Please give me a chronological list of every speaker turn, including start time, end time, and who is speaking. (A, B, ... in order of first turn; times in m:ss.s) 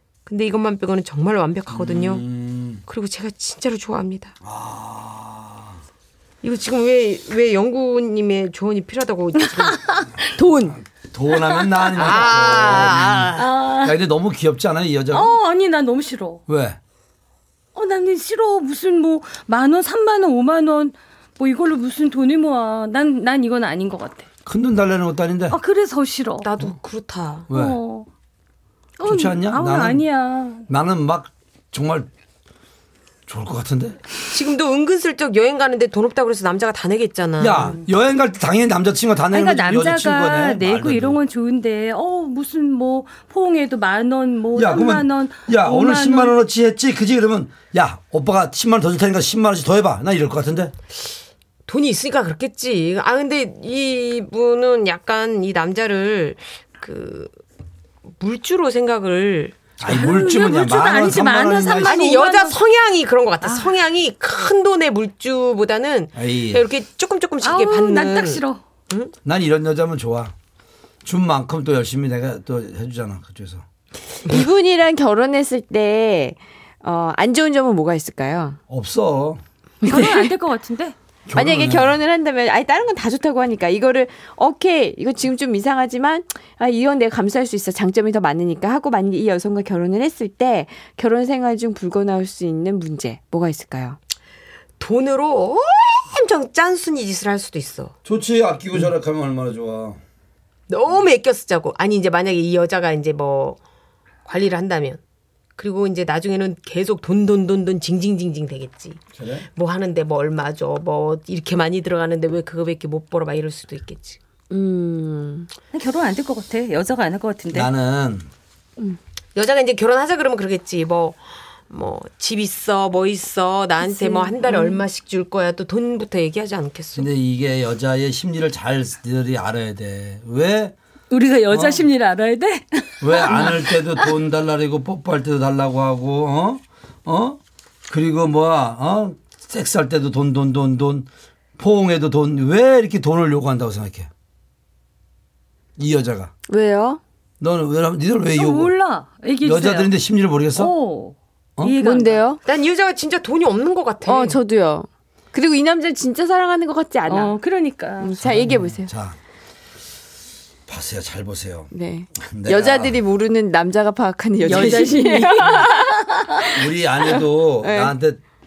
0:00.2-0:02.2 A
0:01.7-0:02.8 B
0:02.8-0:04.3 A
0:04.4-0:05.8 B
0:06.4-0:10.0 A
0:10.3-0:10.8 C
0:10.5-0:15.4 B
0:11.3-0:12.5 D
0:12.0-0:13.4 A
0:13.3-0:14.0 D
0:15.1-0:16.4 D
0:16.5-0:16.8 B
0:17.7-0:24.2 D
0:24.4-0:25.6 B
0:25.5-0:26.5 D
0:26.4-0:27.5 A
0:27.5-0:27.8 B
0:27.5-0:28.1 D
0:29.0-0:30.7 D
0:29.0-0:30.0 B
0:30.7-0:32.1 B
0:33.3-0:34.0 B
0:34.3-0:37.8 A
0:37.4-0:41.2 B
0:39.3-0:46.4 D
0:44.5-0:50.7 B
0:51.7-0:57.3 A
0:58.2-1:00.3 A
0:59.8-1:02.0 B
0:59.8-1:02.6 D
1:01.8-1:09.1 A
1:03.4-1:03.7 D
1:06.2-1:06.6 B
1:07.4-1:08.6 D
1:09.2-1:10.3 B
1:11.0-1:13.6 B
1:14.1-1:18.6 C
1:18.7-1:19.4 B
1:19.8-1:20.3 C
1:19.8-1:20.9 D
1:21.3-1:22.0 B
1:21.3-1:34.0 C
1:34.8-1:37.9 A
1:38.0-1:40.0 B
1:40.7-1:43.6 A
1:44.2-1:45.0 A
1:45.6-1:54.2 A
1:49.1-1:49.5 B
1:54.5-1:55.5 C
1:55.7-1:57.7 D
1:57.5-1:58.3 B
1:59.3-2:07.1 A
2:03.8-2:04.8 C
2:07.0-2:10.7 B
2:11.1-2:14.1 D
2:11.5-2:11.9 B
2:13.0-2:21.1 B
2:21.6-2:24.1 B
2:25.8-2:26.3 B
2:26.5-2:27.0 C
2:27.4-2:28.7 B
2:28.3-2:29.9 D
2:29.4-2:30.7 B
2:30.5-2:32.2 D
2:31.8-2:32.4 C
2:32.4-2:34.4 A
2:34.0-2:37.4 C
2:37.0-2:38.2 D
2:38.0-2:38.9 C
2:38.2-2:39.2 B
2:40.7-2:43.0 B
2:41.7-2:46.6 C
2:44.4-2:45.9 D
2:44.5-2:44.8 B
2:46.5-2:48.2 B
2:47.6-2:48.0 C